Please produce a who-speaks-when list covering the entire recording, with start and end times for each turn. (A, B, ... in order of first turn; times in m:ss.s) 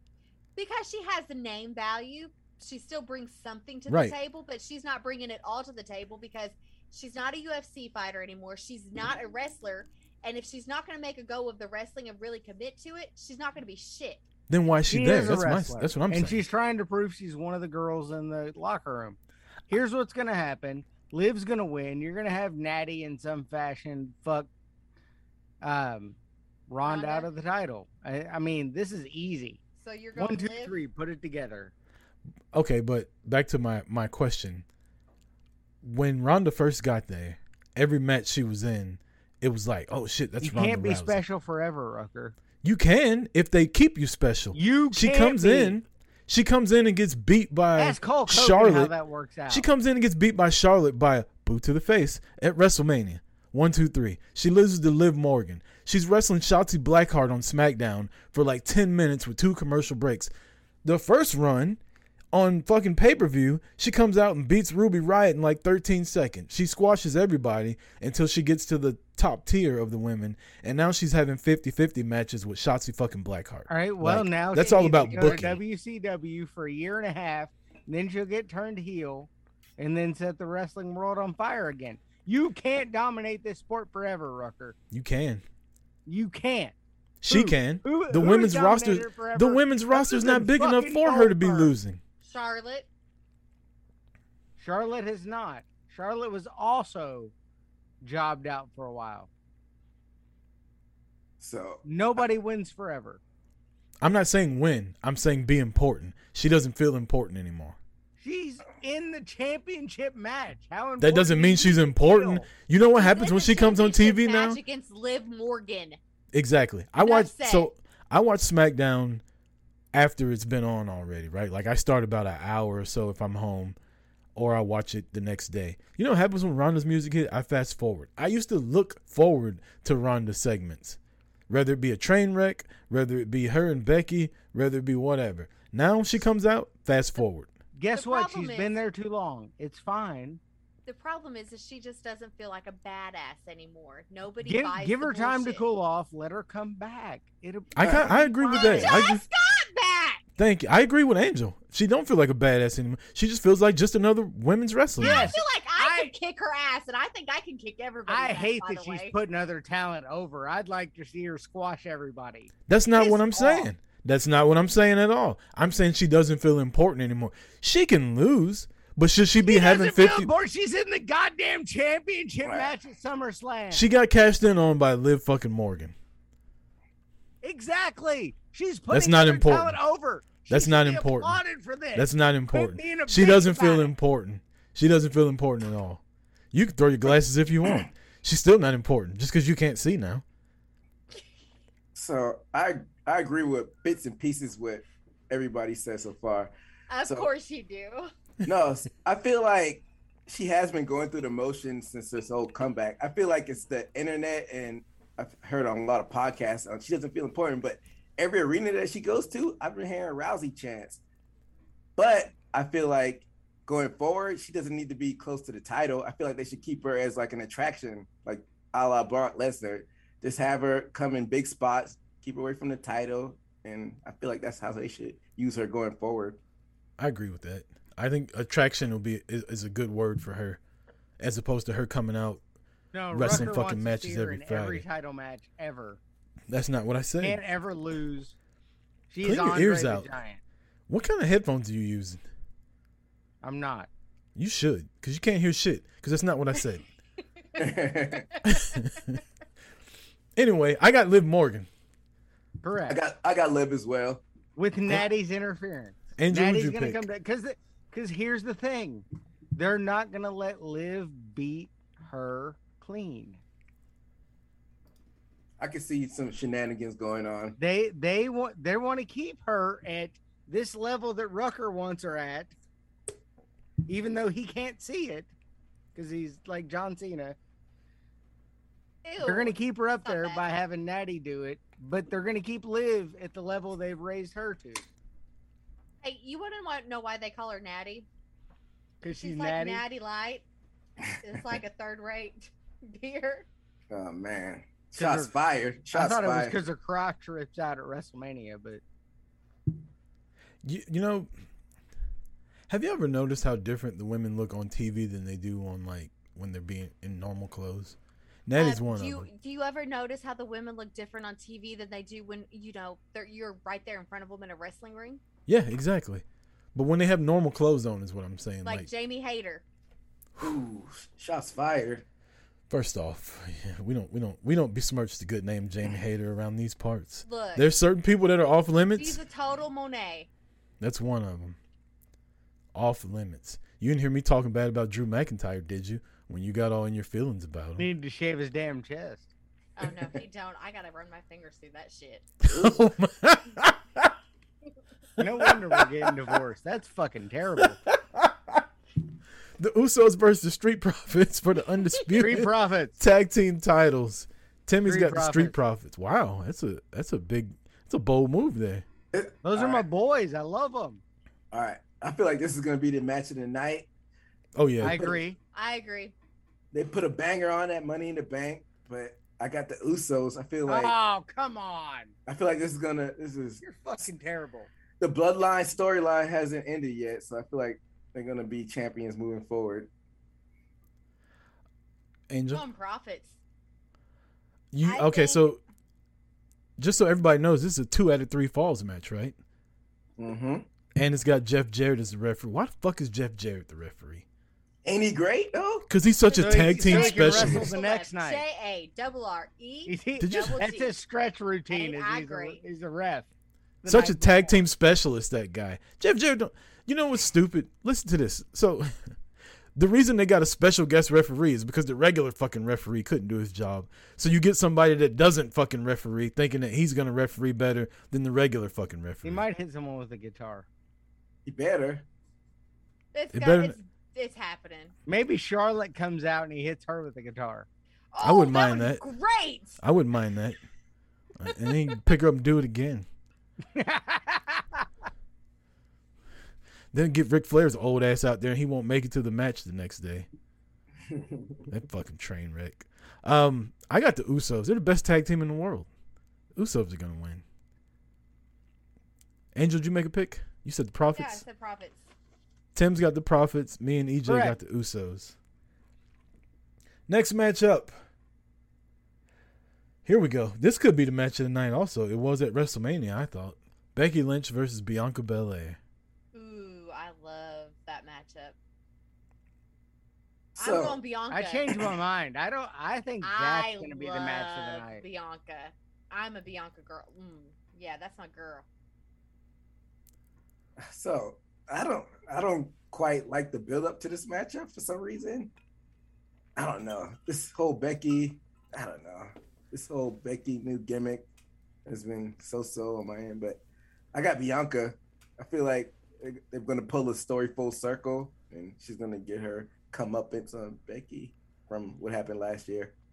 0:00.6-0:14.2 A
0:03.9-0:04.2 B
0:14.5-0:16.4 B
0:14.9-0:24.5 C
0:25.6-0:26.2 C
0:26.7-0:29.6 C
0:26.8-0:27.3 A
0:29.8-0:30.8 A
0:30.2-0:31.7 C
0:32.5-0:34.6 B
0:35.8-0:41.2 B
0:40.4-0:42.4 C
0:42.6-0:48.9 B
0:44.5-0:45.8 C
0:47.8-0:49.7 C
0:49.5-1:00.3 B
1:00.8-1:01.8 B
1:02.3-1:15.6 B
1:13.7-1:24.8 C
1:14.6-1:15.5 A
1:24.9-1:25.4 B
1:26.1-1:26.8 C
1:27.2-1:32.0 B
1:27.3-1:31.7 C
1:32.2-1:32.9 A
1:34.6-1:37.3 C
1:38.0-1:39.3 C
1:41.4-1:41.8 D
1:41.8-1:43.2 C
1:44.0-1:47.8 B
1:48.2-1:52.5 C
1:51.0-1:54.6 B
1:52.8-1:56.0 A
1:56.3-1:59.2 B
1:57.0-1:57.7 A
1:59.9-2:03.8 B
2:04.4-2:11.0 B
2:11.5-2:17.5 B
2:17.8-2:20.4 C
2:17.9-2:18.8 A
2:20.9-2:25.6 A
2:24.4-2:29.1 C
2:27.8-2:29.2 B
2:28.5-2:30.2 A
2:30.4-2:35.4 B
2:35.0-2:36.1 C
2:35.0-2:39.2 A
2:38.1-2:43.7 C
2:42.7-2:50.3 B
2:49.4-2:53.9 C
2:52.4-2:52.7 D
2:53.7-2:56.0 B
2:57.4-3:03.9 C
2:58.9-2:59.8 B
3:00.5-3:01.4 B
3:02.0-3:10.2 B
3:12.0-3:16.5 D
3:16.9-3:18.1 A
3:18.4-3:31.0 D
3:32.0-3:46.4 D
3:47.0-3:50.6 B
3:51.2-3:52.4 B
3:52.9-3:56.0 C
3:53.1-3:54.9 B
3:56.5-3:57.4 B
3:57.2-3:58.4 C
3:59.1-4:00.4 C
3:59.2-4:00.1 B
4:00.9-4:02.2 B
4:03.4-4:03.9 C
4:04.4-4:06.8 B
4:07.6-4:08.3 D
4:08.5-4:09.2 B
4:10.4-4:11.7 B
4:12.6-4:13.0 C
4:12.9-4:14.2 D
4:14.6-4:23.4 C
4:16.2-4:17.1 B
4:25.6-4:27.6 D
4:27.6-4:32.6 C
4:33.9-4:35.3 C
4:36.0-4:37.4 C
4:39.0-4:40.4 A
4:39.2-4:44.9 C
4:46.0-4:48.1 A
4:49.0-4:49.8 C
4:49.2-4:50.4 A
4:51.2-4:53.5 A
4:53.9-4:56.6 D
4:55.0-4:55.4 C
4:55.9-4:58.8 C
5:00.6-5:01.3 B
5:02.7-5:09.3 B
5:08.6-5:15.2 A
5:15.5-5:16.2 B
5:16.8-5:18.9 B
5:18.6-5:19.6 A
5:20.4-5:22.0 D
5:22.7-5:29.2 B
5:27.3-5:27.7 A
5:29.0-5:30.3 A
5:30.8-5:31.6 B
5:32.7-5:37.9 B
5:37.8-5:39.3 C
5:39.8-5:42.3 A
5:42.4-5:44.1 B
5:42.5-5:42.8 D
5:45.2-5:47.8 C
5:45.2-5:45.5 B
5:47.6-5:48.6 B
5:49.6-5:58.8 B
5:52.2-5:53.0 C
5:54.8-5:55.6 C
5:59.1-5:59.8 D
5:59.4-6:01.0 C
6:01.5-6:03.9 D
6:04.6-6:05.1 B
6:04.8-6:05.4 C
6:04.9-6:05.2 D
6:05.5-6:06.1 A
6:06.7-6:10.9 D
6:10.7-6:12.1 C
6:12.3-6:13.6 D
6:13.6-6:14.7 C
6:15.0-6:19.9 D
6:22.3-6:22.6 B
6:22.5-6:23.4 A
6:24.7-6:25.6 B
6:24.8-6:25.4 A
6:26.8-6:29.4 B
6:30.2-6:30.7 D
6:31.0-6:34.2 B
6:34.8-6:35.9 D
6:35.9-6:37.7 B
6:36.3-6:41.0 A
6:36.4-6:38.4 C
6:39.9-6:43.3 C
6:40.2-6:40.6 B
6:41.7-6:42.6 A
6:43.8-6:44.6 C
6:43.9-6:49.2 B
6:49.8-6:59.4 B
6:59.2-7:00.7 C
7:01.5-7:02.0 D
7:03.1-7:05.0 A
7:03.3-7:03.8 B
7:05.1-7:07.7 C
7:08.1-7:09.8 A
7:08.2-7:09.0 B
7:09.8-7:10.6 B
7:11.4-7:13.1 B
7:13.7-7:14.8 C
7:16.9-7:20.3 B
7:21.7-7:25.9 B
7:26.6-7:27.4 B
7:29.5-7:31.4 B
7:31.1-7:32.1 A
7:32.8-7:35.4 B
7:34.3-7:34.6 C
7:37.1-7:37.9 B
7:40.0-7:45.8 B
7:46.3-7:48.6 A
7:50.6-7:51.0 D
7:50.6-7:51.7 A
7:51.3-7:55.0 C
7:53.2-7:58.6 A
8:00.8-8:05.5 D
8:06.6-8:11.3 D
8:11.9-8:13.6 D
8:14.1-8:23.0 D